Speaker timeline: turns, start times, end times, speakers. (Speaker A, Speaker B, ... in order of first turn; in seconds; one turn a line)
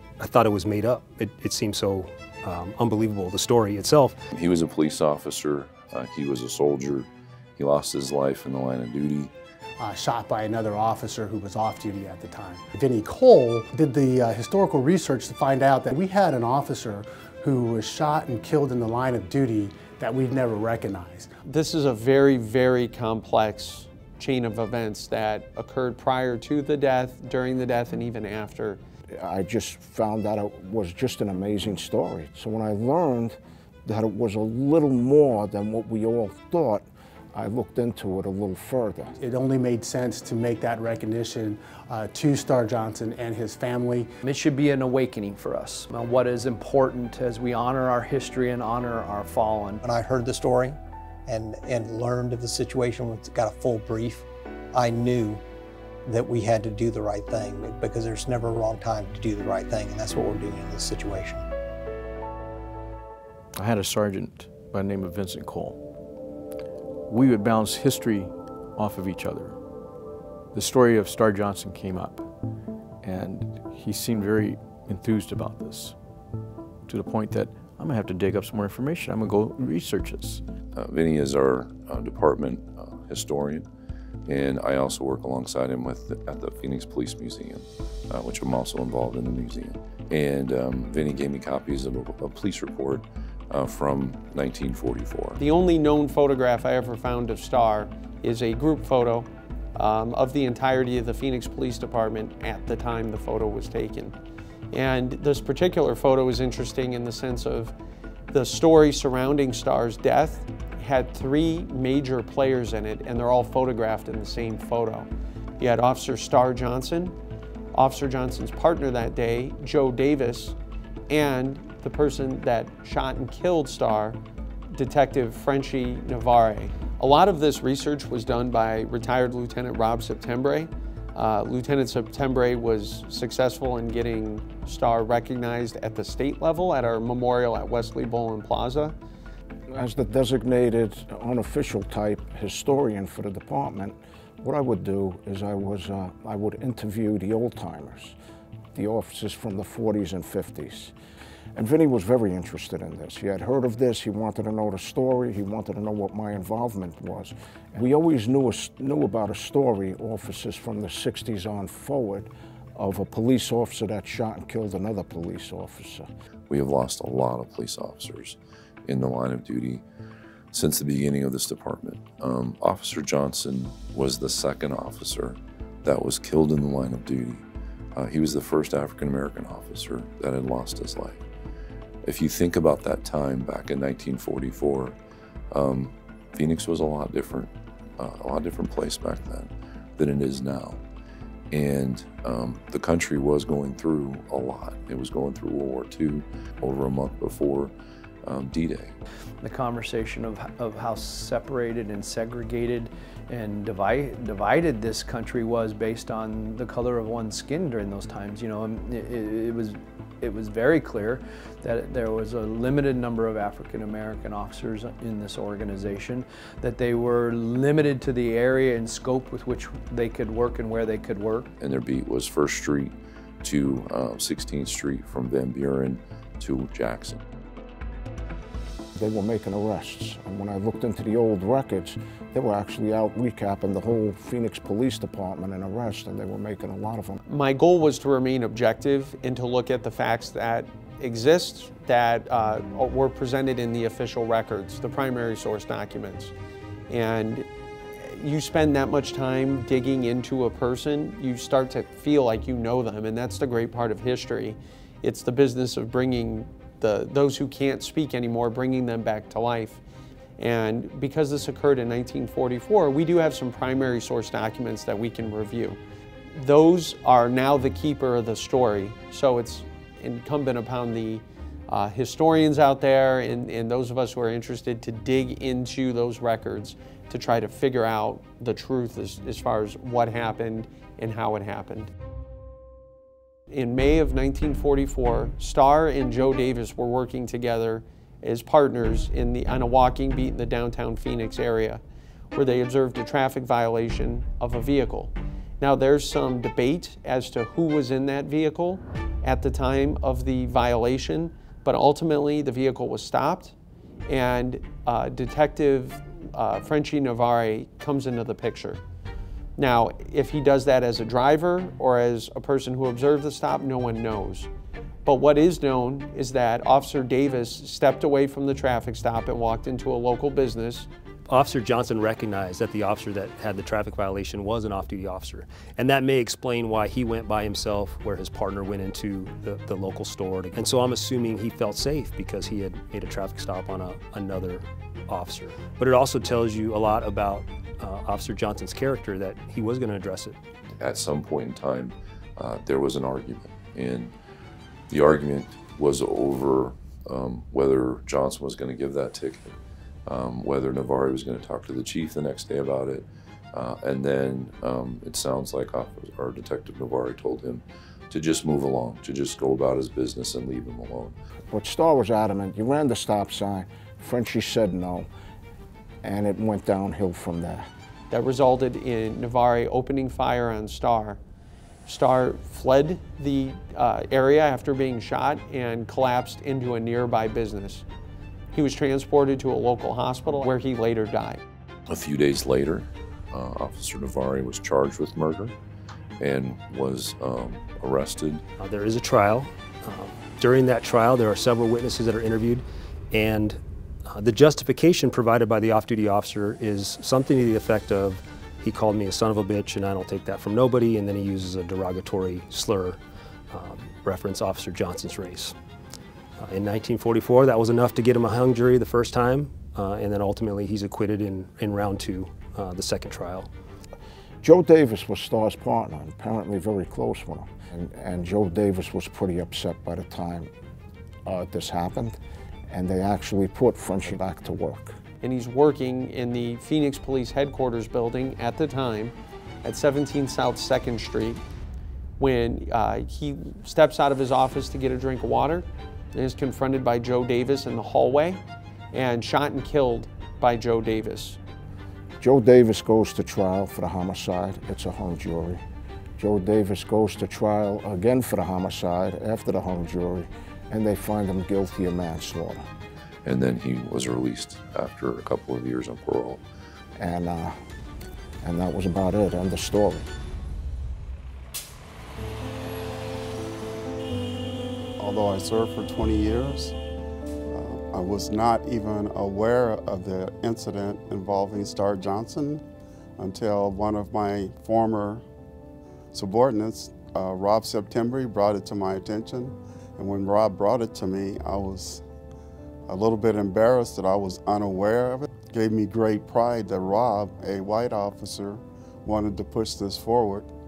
Speaker A: 0.2-4.2
Speaker B: 4.3-9.3
Speaker C: 9.8-21.3
Speaker D: 21.4-28.8
Speaker E: 29.1-39.1
Speaker C: 39.2-44.1
Speaker F: 44.2-49.8
Speaker G: 49.8-55.4
Speaker G: 56.0-61.5
Speaker H: 63.6-65.8
Speaker H: 67.1-69.6
Speaker H: 70.5-72.2
Speaker H: 73.0-76.0
Speaker H: 76.9-80.4
Speaker B: 80.8-83.7
Speaker B: 84.3-95.4
Speaker D: 95.4-104.2
Speaker D: 104.7-107.7
Speaker D: 108.3-117.2
Speaker D: 117.7-120.6
Speaker D: 121.1-124.2
Speaker D: 124.7-138.9
Speaker E: 139.7-148.2
Speaker E: 148.8-150.9
Speaker E: 151.6-166.1
Speaker B: 166.5-169.8
Speaker B: 170.5-177.4
Speaker B: 178.0-181.2
Speaker B: 182.0-185.0
Speaker B: 185.5-190.8
Speaker B: 191.5-197.7
Speaker B: 198.2-198.9
Speaker F: 199.4-221.5
Speaker B: 221.6-227.2
Speaker E: 229.0-237.2
Speaker D: 237.3-246.3
Speaker D: 246.9-259.8
Speaker D: 260.4-265.8
Speaker D: 266.3-281.9
Speaker D: 283.5-291.8
Speaker D: 292.3-303.6
Speaker D: 304.1-308.8
Speaker D: 309.6-314.5
Speaker D: 315.1-320.9
Speaker A: 321.3-340.4
Speaker B: 340.8-344.1
Speaker B: 344.9-349.5
Speaker B: 350.1-361.1
Speaker E: 361.5-365.1
Speaker E: 366.0-367.7
Speaker D: 368.1-371.2
Speaker D: 371.9-377.9
Speaker D: 378.5-381.4
Speaker B: 381.9-385.5
Speaker B: 386.2-388.4
Speaker A: 388.6-393.6
Speaker A: 394.1-403.0
Speaker A: 403.5-405.6
Speaker A: 406.4-413.5
Speaker E: 414.4-420.5
Speaker E: 421.3-422.2
Speaker E: 422.7-425.0
Speaker D: 425.2-431.4
Speaker D: 432.2-441.4
Speaker E: 442.2-445.6
Speaker E: 446.2-452.7
Speaker B: 453.2-456.4
Speaker E: 457.0-457.5
Speaker E: 458.4-460.1
Speaker I: 465.0-466.8
Speaker I: 467.5-472.6
Speaker I: 473.2-475.2
Speaker I: 476.1-482.0
Speaker I: 482.9-490.5